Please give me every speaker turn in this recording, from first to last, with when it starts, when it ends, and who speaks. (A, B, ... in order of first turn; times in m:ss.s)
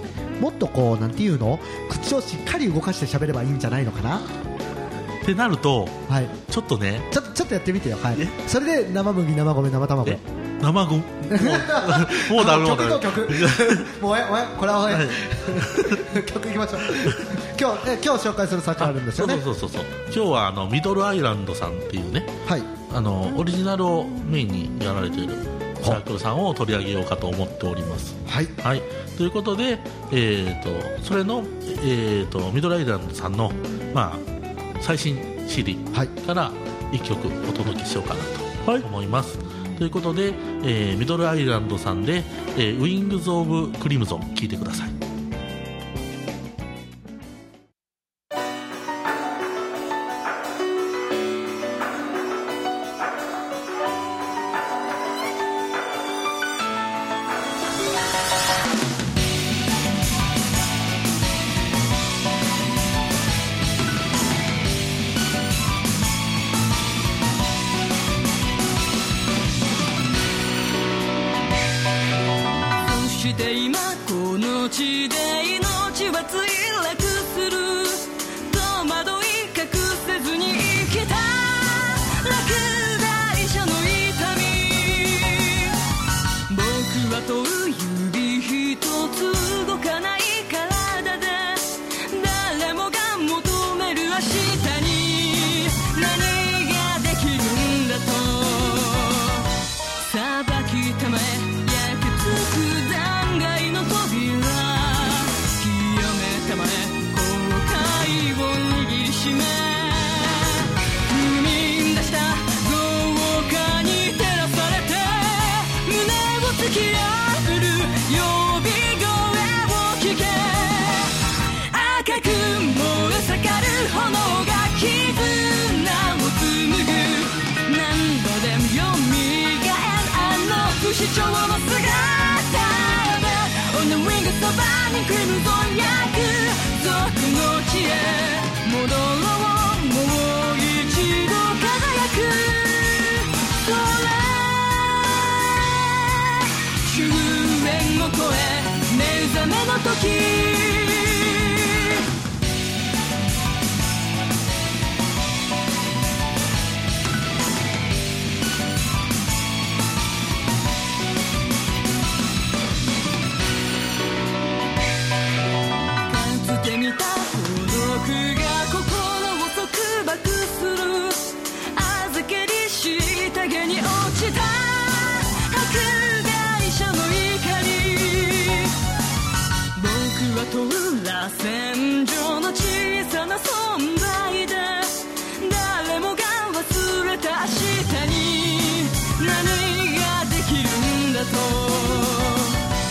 0:00.4-0:04.3 A
0:05.2-0:07.1 B
0:06.1-0:06.3 A
0:07.1-0:10.2 A
0:10.0-0:13.9 B
0:11.3-0:19.4 A
0:14.9-0:16.0 B
0:16.9-0:17.2 B
0:18.8-0:22.3 B
0:22.9-0:34.2 B
0:28.2-0:28.5 A
0:34.8-0:45.0 B
1:12.8-1:25.8 C
1:26.5-2:32.0 C
2:46.1-2:58.7 C
2:59.7-3:12.6 C